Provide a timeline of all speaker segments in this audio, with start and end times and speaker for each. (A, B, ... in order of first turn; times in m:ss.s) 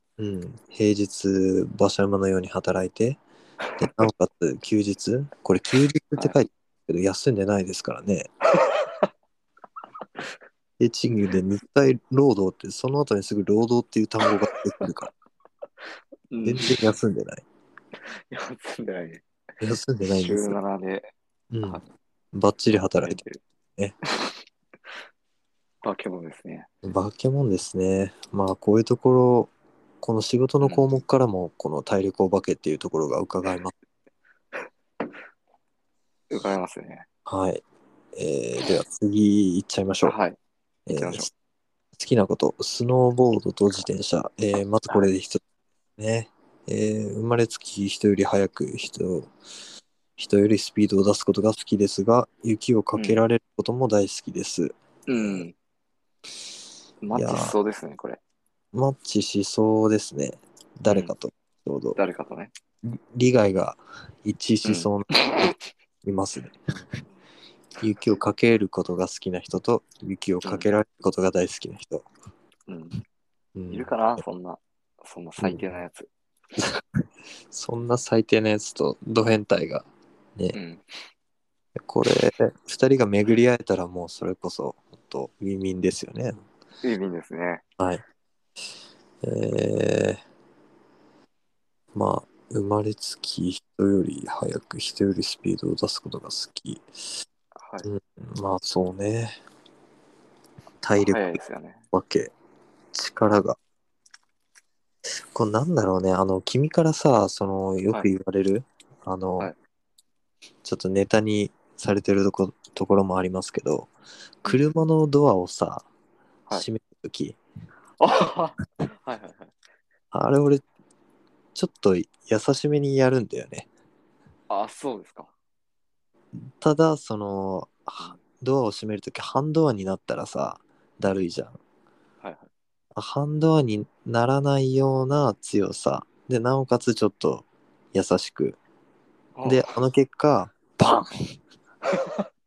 0:00.2-0:03.2 A
0:03.8-0:08.3 A
0:08.6-0:09.1 B
0:10.8-0:15.1 A
0:16.3-0:16.9 B
0:16.4-0:17.4 A
0:18.1-0:19.2 B
0:19.6-0:20.6 A
0:20.0-0:21.1 B
0:21.5-0:21.8 A
0:22.3-0:23.2 A
0:22.8-0:23.4 B
0:25.8-0:26.7 B
0:26.8-0:33.7 A
0:36.3-0:37.0 B
0:37.2-0:37.6 A
0:38.1-0:40.2 A
0:40.0-0:40.4 B
0:40.9-0:41.3 A
0:40.9-0:41.3 B
0:42.0-0:45.4 A
0:46.0-0:49.3 A
0:50.2-0:55.4 A
0:52.9-0:53.2 B
0:55.1-0:55.5 B
0:57.0-0:58.2 B
0:57.1-0:57.6 A
0:58.7-1:02.0 A
1:00.9-1:01.1 B
1:02.0-1:02.5 B
1:02.8-1:05.1 A
1:04.6-1:05.5 B
1:06.0-1:06.6 A
1:07.8-1:12.1 A
1:10.4-1:10.7 B
1:12.7-1:13.0 B
1:13.5-1:14.2 A
1:13.7-1:16.1 B
1:15.4-1:15.7 A
1:17.5-1:20.6 A
1:20.5-1:20.8 B
1:21.8-1:26.4 A
1:26.8-1:27.6 B
1:29.2-1:30.2 A
1:31.9-1:36.8 A
1:37.6-1:37.9 B
1:37.8-1:39.4 A
1:40.8-1:41.4 A
1:40.9-1:41.8 B
1:41.9-1:42.3 A
1:42.9-1:43.6 A
1:45.3-1:49.5 A
1:50.6-1:53.9 A
1:54.4-1:55.8 A
1:56.5-1:57.4 A
1:58.0-1:59.5 B
2:00.1-2:00.6 A
2:01.5-2:03.7 A
2:04.5-2:05.3 B
2:06.6-2:11.6 A
2:12.2-2:12.5 B
2:12.9-2:18.6 A
2:19.4-2:19.8 B
2:19.4-2:21.4 A
2:21.9-2:22.2 B